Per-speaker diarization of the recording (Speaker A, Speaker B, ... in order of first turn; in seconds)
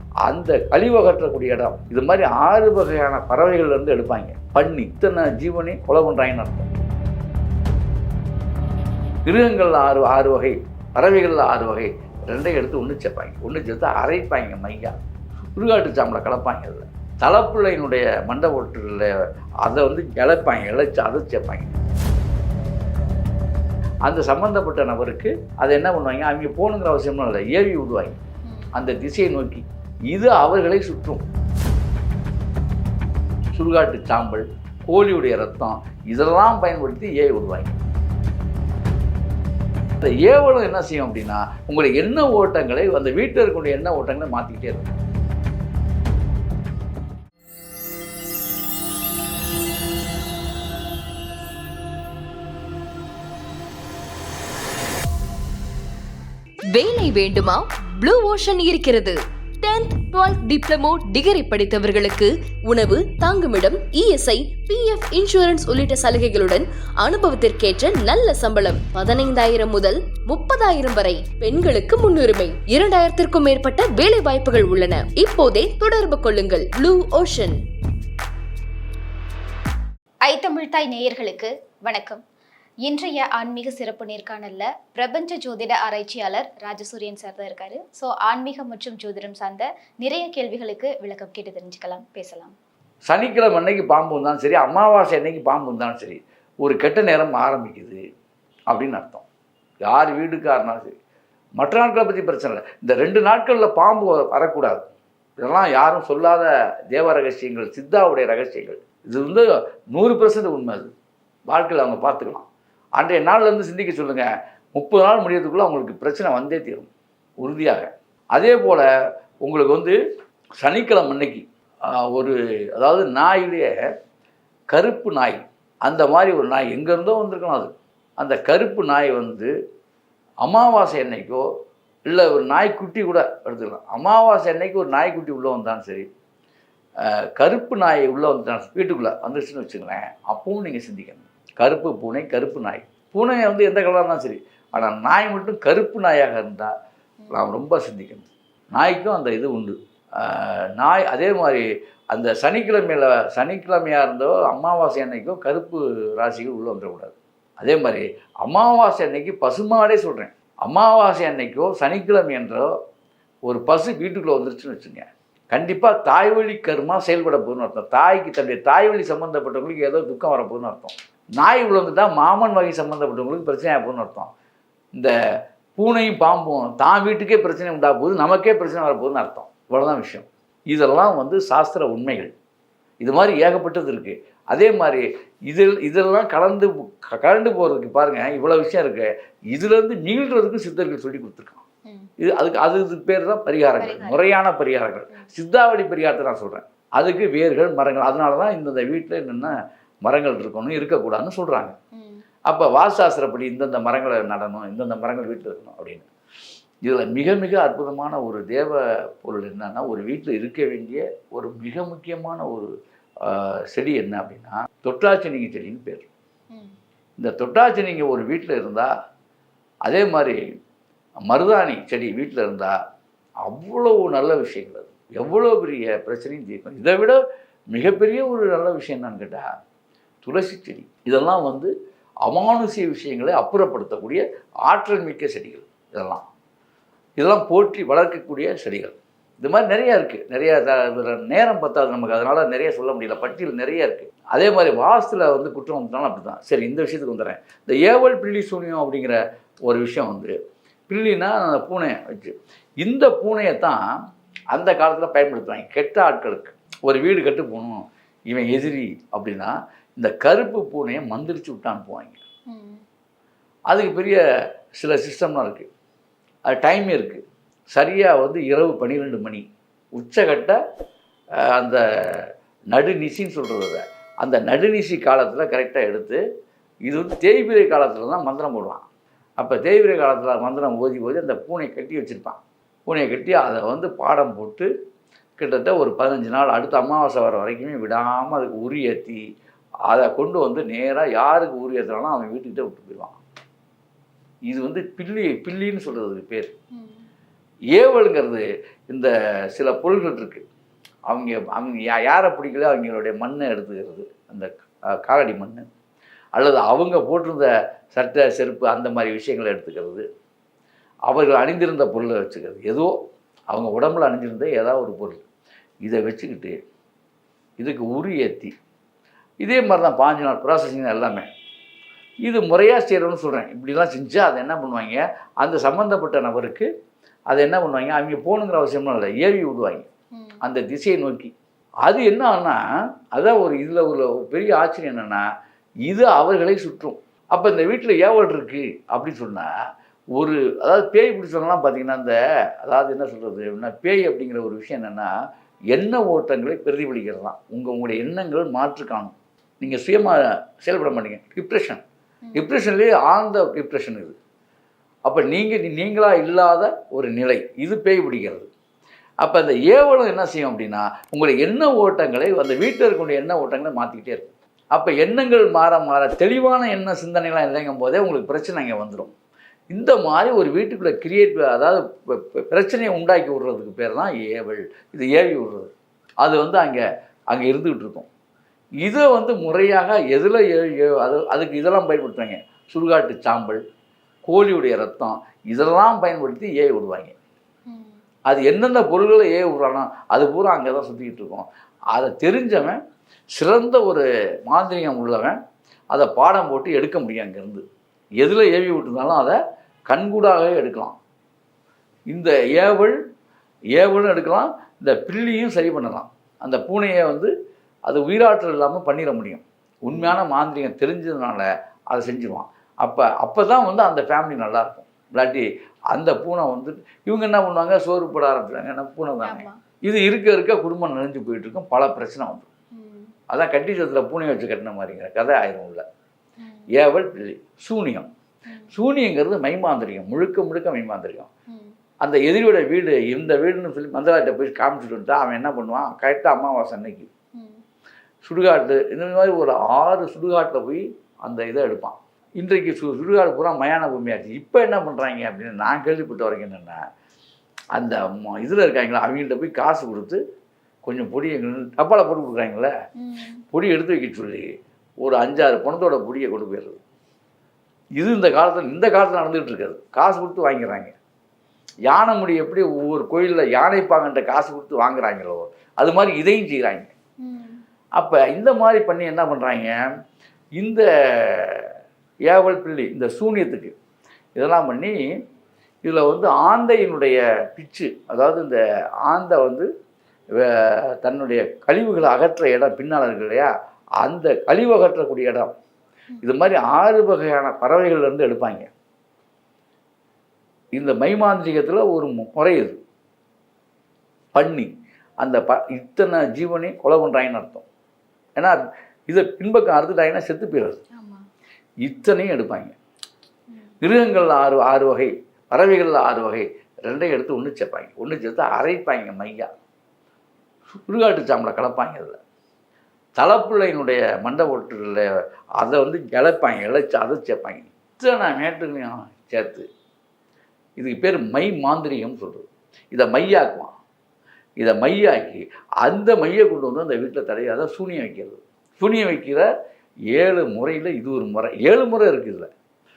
Speaker A: 0.3-6.7, 9.2-15.0, 15.6-19.1, 19.6-21.8, 24.0-28.2, 28.7-31.2, 33.5-37.8, 40.0-44.9, 93.1-98.0, 98.7-99.2, 99.8-101.0, 101.6-104.8, 105.4-110.9, 111.5-116.9, 117.4-118.9, 119.4-120.0, 120.6-121.4, 122.1-123.7, 124.7-129.5, 130.4-131.4, 132.1-136.1, 137.0-146.7, 147.3-162.7, 163.5-174.3, 175.8-182.3, 183.0-191.6, 192.2-199.5, 200.0-201.7, 202.5-206.1, 206.8-212.7, 213.2-216.1, 217.2-218.9, 219.8-220.4, 221.3-222.7, 223.4-227.2, 227.7-229.4, 230.2-231.7, 232.2-236.2, 237.2-250.3, 250.9-253.8, 254.5-262.2, 263.7-264.2, 264.8-265.7, 266.5-267.2, 267.7-269.4, 270.0-270.6, 271.4-276.2, 276.9-278.9, 279.4-284.7, 285.4-289.2, 289.9-293.2, 294.5-296.5, 297.7-300.4, 301.1-304.5, 305.0-305.7, 306.4-310.0, 311.1-312.9, 313.5-315.2, 315.8-316.6, 317.6-318.5, 319.4-321.3, 322.2-326.7, 327.3-329.9, 330.4-331.3, 331.9-332.6, 333.1-335.2, 335.9-339.5, 340.1-345.1, 345.7-351.8, 352.3-354.1, 355.1-358.5, 359.2-369.1, 369.7-375.7, 376.2-378.1, 378.8-383.6, 384.2-387.1, 388.3-392.8, 393.3-395.4, 395.9-397.6, 398.2-401.0, 402.1-402.9, 403.8-407.3, 407.9-422.5, 423.3-425.8, 426.7-428.1, 428.7-431.3, 432.0-437.1, 438.2-446.8, 447.8-450.2, 450.8-452.7, 453.5-454.5, 455.0-456.8, 458.0-460.9, 461.9-466.9, 468.0-469.7, 470.6-471.7, 472.2-473.7, 474.4-475.0, 475.8-479.7, 480.4-483.5, 484.0-485.5, 486.2-488.7, 490.8-492.8, 494.3-497.6, 498.4-500.8, 501.9-502.7, 503.8-509.5, 510.7-512.2, 513.2-515.0, 515.6-519.6, 520.8-523.8, 524.6-529.5, 530.1-532.5
Speaker B: 56.7-77.6
Speaker C: 80.2-82.2, 82.8-92.5, 193.8-194.3, 201.9-202.2, 262.5-262.8, 296.7-297.0, 387.7-388.0, 409.9-410.2, 419.2-419.6, 422.7-423.1, 426.4-426.7, 437.4-437.6, 453.0-453.4, 467.2-467.6, 501.0-501.3